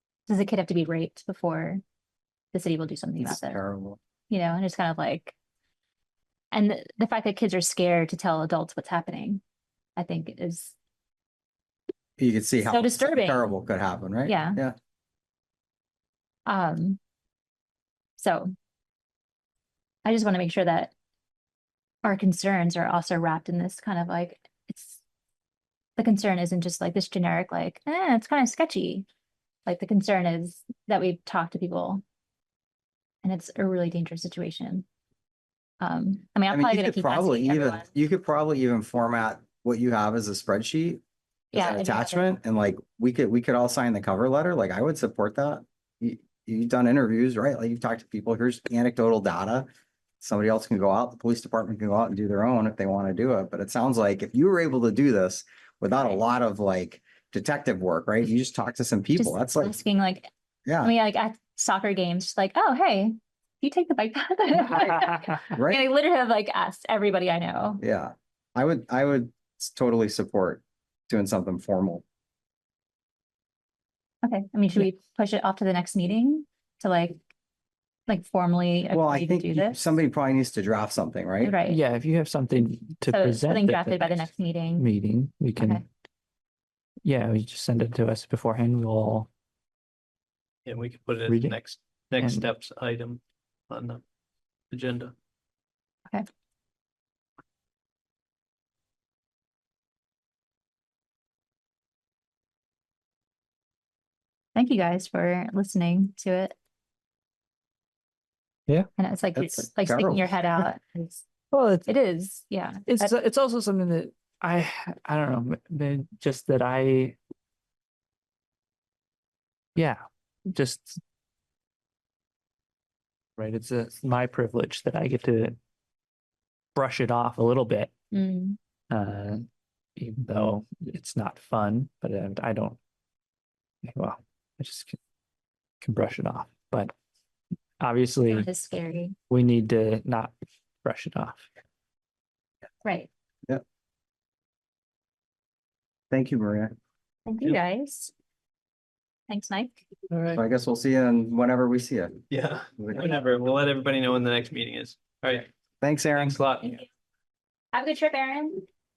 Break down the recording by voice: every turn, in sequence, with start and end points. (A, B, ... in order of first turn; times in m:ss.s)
0:00.3-0:01.8 A
0:02.5-0:03.6 A
0:03.2-0:04.0 B
0:04.3-0:05.3 A
0:06.5-0:09.4 A
0:10.0-0:10.7 A
0:12.2-0:14.7 B
0:12.6-0:13.4 A
0:14.3-0:14.6 A
0:16.4-0:17.0 A
0:18.2-0:18.5 A
0:20.0-0:20.9 A
0:22.0-0:25.0 A
0:26.0-0:29.0 A
0:29.6-0:32.0 A
0:33.2-0:34.8 A
0:35.8-0:37.9 A
0:36.5-0:41.0 B
0:41.5-0:42.3 A
0:41.5-0:49.7 B
0:50.2-0:59.7 B
0:59.2-1:00.3 A
1:00.6-1:00.9 B
1:00.8-1:07.8 A
1:05.5-1:05.8 B
1:07.8-1:12.0 B
1:14.2-1:17.3 A
1:18.1-1:19.9 A
1:18.9-1:21.5 B
1:21.4-1:21.8 A
1:21.6-1:25.8 C
1:23.1-1:24.9 A
1:25.6-1:25.8 A
1:27.0-1:29.3 C
1:30.6-1:34.0 D
1:31.3-1:31.6 C
1:32.2-1:32.5 C
1:34.7-1:35.1 D
1:44.5-1:46.6 A
1:49.0-1:51.2 A
1:49.3-1:50.3 B
1:51.5-1:51.9 C
1:51.9-1:53.1 A
1:52.9-1:57.2 C
1:59.8-2:01.0 C
2:03.4-2:05.6 C
2:06.7-2:07.9 C
2:08.1-2:08.6 A
2:08.9-2:09.4 C
2:10.0-2:12.8 C
2:13.8-2:15.0 C
2:15.8-2:16.9 C
2:17.8-2:18.5 C
2:18.3-2:19.1 A
2:19.3-2:21.4 C
2:22.8-2:23.1 A
2:26.1-2:26.7 B
2:27.2-2:28.1 A
2:29.3-2:29.8 A
2:30.3-2:32.2 B
2:32.3-2:35.5 D
2:32.8-2:33.1 B
2:35.8-2:36.4 B
2:36.1-2:36.8 D
2:37.7-2:38.6 A